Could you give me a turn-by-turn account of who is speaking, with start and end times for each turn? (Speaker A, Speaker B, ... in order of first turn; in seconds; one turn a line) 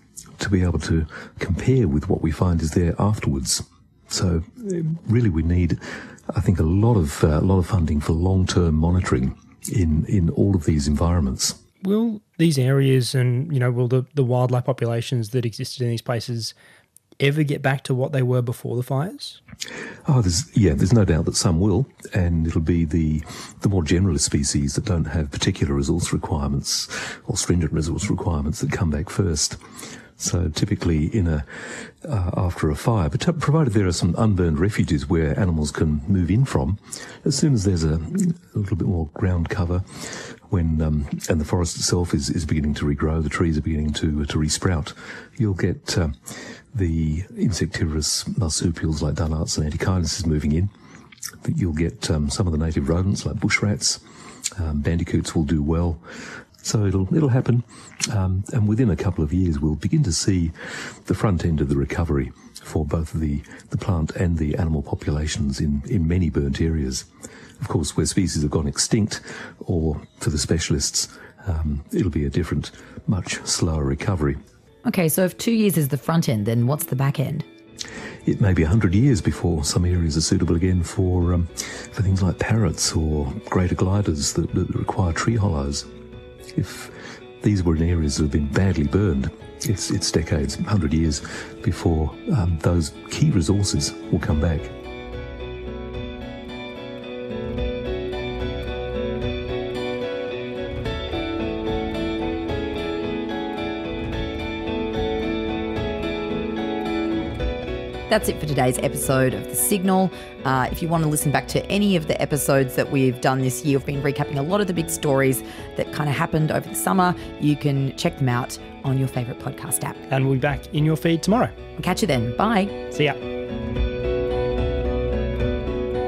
Speaker A: 0.4-11.6
Speaker B: 11.8-16.5
Speaker B: 17.2-19.4
Speaker A: 20.1-29.6
Speaker A: 30.2-50.7
Speaker A: 51.4-54.0
Speaker A: 54.5-56.0
Speaker A: 56.6-67.1
Speaker A: 67.6-74.4
Speaker C: 74.8-77.4
Speaker A: 78.2-85.9
Speaker A: 86.5-94.7
Speaker C: 108.1-120.0
Speaker B: 120.1-121.5
Speaker C: 121.8-122.8
Speaker B: 122.9-123.2